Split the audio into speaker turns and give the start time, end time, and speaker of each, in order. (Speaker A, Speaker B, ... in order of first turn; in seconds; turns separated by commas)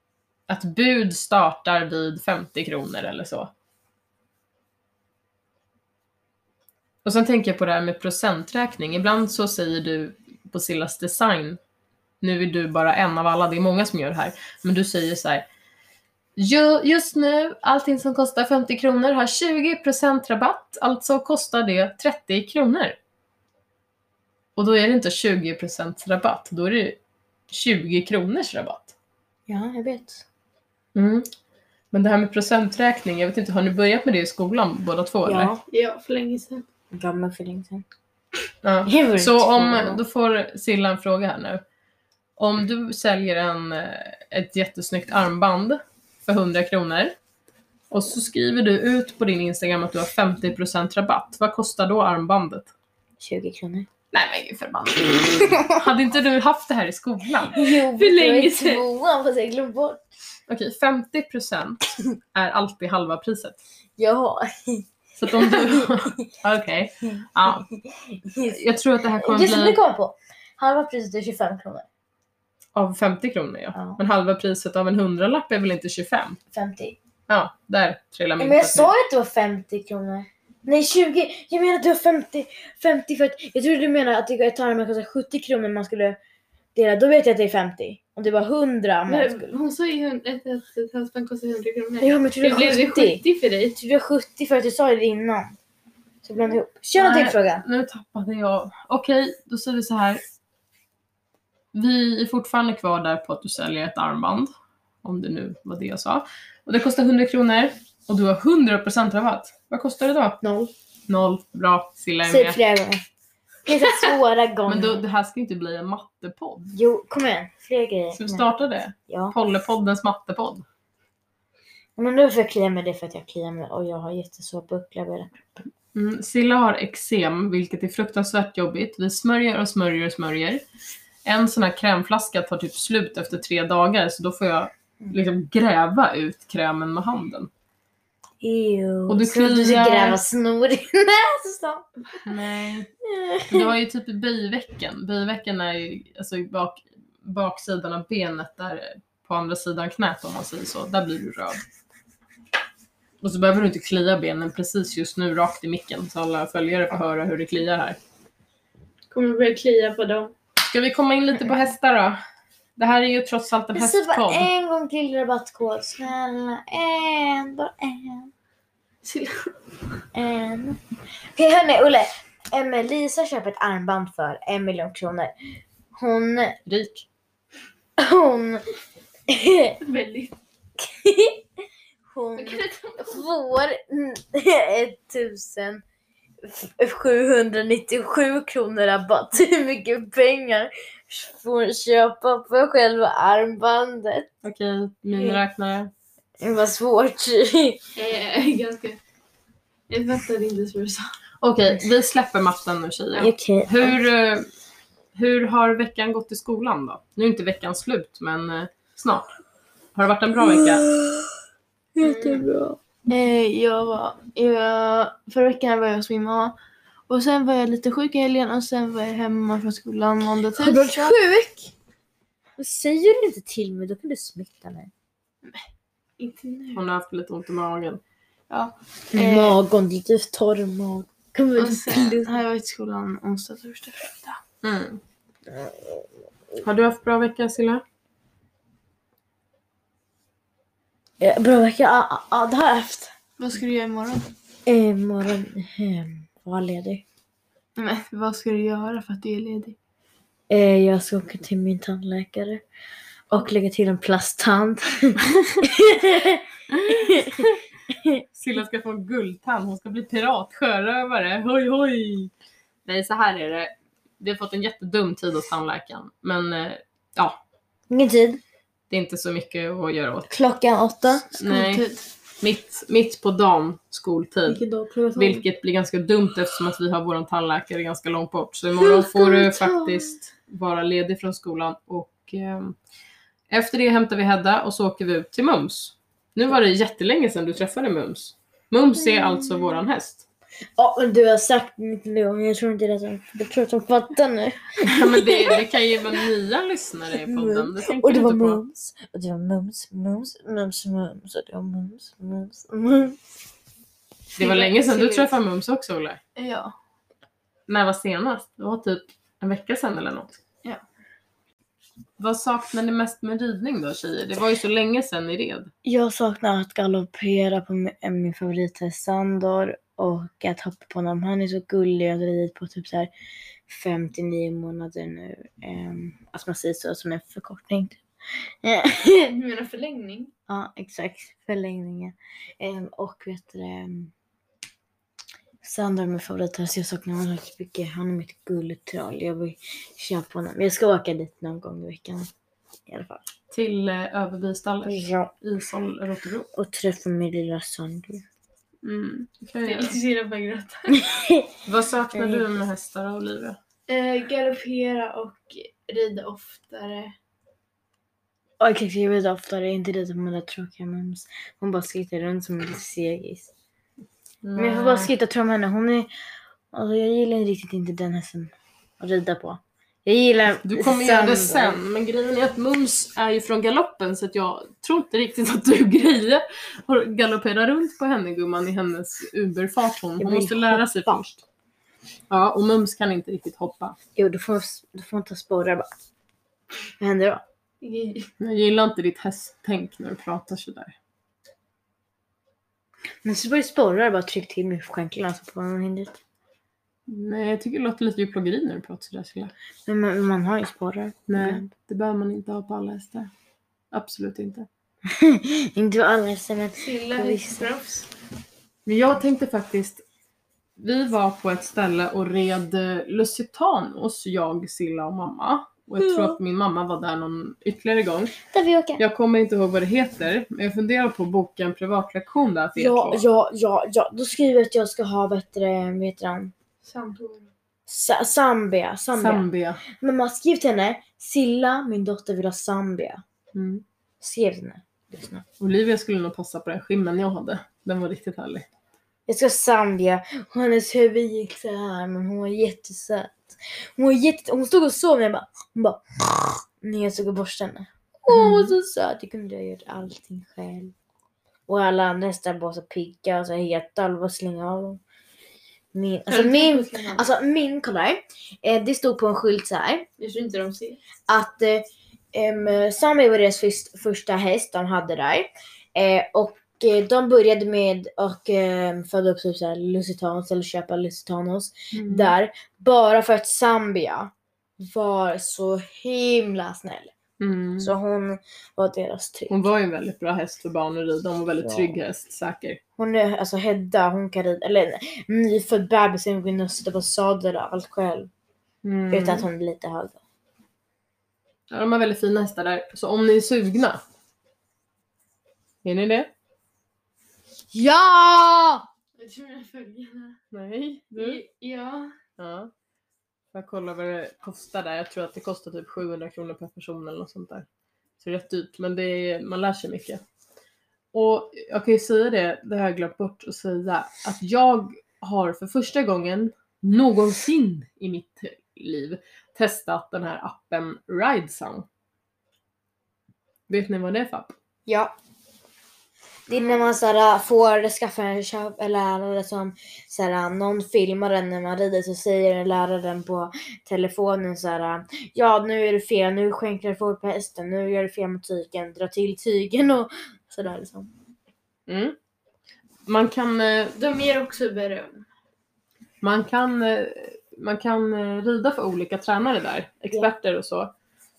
Speaker A: 0.5-3.5, Speaker A: 7.0-11.6, Speaker A: 12.2-15.5, Speaker A: 16.4-23.0, Speaker A: 24.6-27.0, Speaker A: 27.5-28.9, Speaker B: 29.5-30.2, Speaker A: 30.9-31.3, Speaker A: 31.9-35.5, Speaker B: 35.2-35.6, Speaker C: 35.7-36.6, Speaker B: 36.9-37.9, Speaker A: 38.6-41.6, Speaker B: 38.9-40.0, Speaker A: 42.4-47.2, Speaker A: 47.9-52.7, Speaker B: 53.2-53.9, Speaker A: 54.1-57.6, Speaker B: 57.5-60.0, Speaker C: 57.6-58.8, Speaker A: 60.5-63.6, Speaker B: 64.0-66.3, Speaker A: 65.2-67.7, Speaker B: 67.2-68.6, Speaker A: 68.5-69.8, Speaker B: 69.2-71.9, Speaker A: 72.8-76.4, Speaker B: 73.7-74.0, Speaker B: 76.5-77.0, Speaker A: 77.3-78.9, Speaker B: 78.4-86.2, Speaker B: 86.8-89.5, Speaker C: 89.1-93.8, Speaker B: 92.0-93.2, Speaker B: 93.8-95.5, Speaker B: 96.2-97.6, Speaker A: 97.0-100.2, Speaker A: 101.7-110.4, Speaker B: 110.4-110.7, Speaker A: 111.1-112.6, Speaker B: 112.2-113.0, Speaker B: 113.7-115.0, Speaker A: 114.7-116.8, Speaker B: 116.7-118.5, Speaker A: 118.1-120.7, Speaker B: 119.1-119.4, Speaker B: 122.0-125.7, Speaker A: 125.9-130.6, Speaker A: 131.2-137.5, Speaker B: 138.4-141.9, Speaker A: 139.1-140.2, Speaker A: 142.3-142.9, Speaker B: 143.1-143.7, Speaker A: 143.5-151.6, Speaker A: 153.2-158.0, Speaker C: 159.1-160.3, Speaker A: 160.6-162.2, Speaker A: 162.8-164.5, Speaker B: 163.7-168.3, Speaker C: 169.0-169.5, Speaker B: 170.1-170.8, Speaker B: 171.3-175.3, Speaker B: 175.9-176.6, Speaker A: 176.7-177.1, Speaker B: 178.0-178.6, Speaker B: 179.3-179.8, Speaker C: 179.8-180.3, Speaker B: 180.8-181.4, Speaker B: 182.1-185.8, Speaker C: 182.4-183.2, Speaker B: 186.4-194.3, Speaker A: 194.4-195.9, Speaker B: 196.4-197.8, Speaker C: 198.0-199.0, Speaker C: 199.9-201.1, Speaker A: 201.4-204.5, Speaker B: 203.2-204.0, Speaker A: 205.2-209.3, Speaker A: 209.9-210.9, Speaker B: 210.5-211.3, Speaker B: 212.0-212.8, Speaker C: 212.0-212.5, Speaker C: 213.1-216.6, Speaker C: 217.1-221.2, Speaker B: 220.6-221.7, Speaker B: 222.6-224.9, Speaker C: 226.2-226.8, Speaker A: 226.7-228.0, Speaker C: 228.5-229.6, Speaker B: 229.1-232.4, Speaker C: 231.6-234.4, Speaker A: 234.6-235.0, Speaker B: 235.5-236.1, Speaker A: 236.6-237.8, Speaker B: 241.2-243.1, Speaker C: 243.4-244.3, Speaker B: 244.7-247.0, Speaker C: 247.8-249.8, Speaker B: 250.5-252.6, Speaker B: 253.3-258.2, Speaker A: 256.7-257.2, Speaker A: 258.4-262.3, Speaker A: 262.9-267.4, Speaker B: 267.9-268.4, Speaker A: 268.9-270.3, Speaker B: 270.3-271.4, Speaker A: 271.4-271.9, Speaker C: 271.4-272.0, Speaker A: 272.4-274.6, Speaker B: 274.5-275.4, Speaker A: 275.2-282.8, Speaker B: 278.8-280.2, Speaker A: 283.5-290.2, Speaker B: 289.1-289.7, Speaker B: 290.8-295.6, Speaker A: 294.8-298.6, Speaker B: 297.2-303.2, Speaker C: 304.4-305.4, Speaker A: 304.4-306.2, Speaker C: 306.4-306.7, Speaker A: 307.7-310.4, Speaker A: 312.2-315.7, Speaker B: 315.9-323.1, Speaker B: 323.7-329.3, Speaker C: 329.3-330.3, Speaker B: 330.5-334.1, Speaker B: 335.6-342.3, Speaker B: 342.9-343.2, Speaker A: 343.5-346.5, Speaker B: 344.8-345.3, Speaker B: 346.5-348.2, Speaker A: 348.8-349.9, Speaker C: 349.6-351.0, Speaker B: 350.9-351.5, Speaker A: 351.7-353.6, Speaker B: 352.1-352.6, Speaker C: 353.9-357.1, Speaker B: 358.6-363.5, Speaker A: 364.4-365.1, Speaker B: 364.6-366.1, Speaker B: 366.7-371.8, Speaker A: 370.6-381.4, Speaker B: 380.2-381.2, Speaker A: 382.3-384.0, Speaker B: 384.2-385.9, Speaker B: 387.0-387.4, Speaker C: 387.8-388.3, Speaker A: 388.4-390.9, Speaker B: 393.2-396.2, Speaker A: 397.1-399.5, Speaker B: 399.9-401.7, Speaker A: 401.3-403.3, Speaker A: 403.9-404.7, Speaker B: 405.1-407.7, Speaker C: 406.8-408.1, Speaker A: 408.9-410.0, Speaker A: 410.8-418.3, Speaker B: 416.0-416.4, Speaker B: 418.5-419.0, Speaker A: 419.0-423.2, Speaker B: 422.8-426.5, Speaker C: 426.8-427.5, Speaker B: 427.9-433.2, Speaker A: 429.2-429.8, Speaker A: 433.5-433.8, Speaker B: 434.2-435.4, Speaker A: 435.6-438.7, Speaker B: 439.3-450.9, Speaker A: 448.3-448.7, Speaker B: 451.7-455.0, Speaker B: 455.9-460.1, Speaker C: 456.3-457.3, Speaker C: 460.2-461.0, Speaker B: 461.3-477.1, Speaker A: 472.0-472.3, Speaker A: 477.4-477.9, Speaker B: 477.8-479.6, Speaker A: 479.5-482.8, Speaker B: 481.6-482.0, Speaker B: 483.0-488.3, Speaker A: 488.8-489.5, Speaker B: 489.1-490.2, Speaker A: 491.7-494.0, Speaker A: 495.8-496.3, Speaker B: 497.7-498.9, Speaker C: 499.2-500.4, Speaker A: 500.5-501.4, Speaker C: 501.1-502.1, Speaker A: 502.4-502.7, Speaker A: 503.5-507.7, Speaker A: 508.2-510.2, Speaker A: 511.1-521.9, Speaker A: 523.7-524.5, Speaker C: 524.9-525.1, Speaker B: 526.5-541.1, Speaker A: 541.9-542.2, Speaker A: 543.1-544.0, Speaker C: 544.0-545.2, Speaker A: 546.2-550.9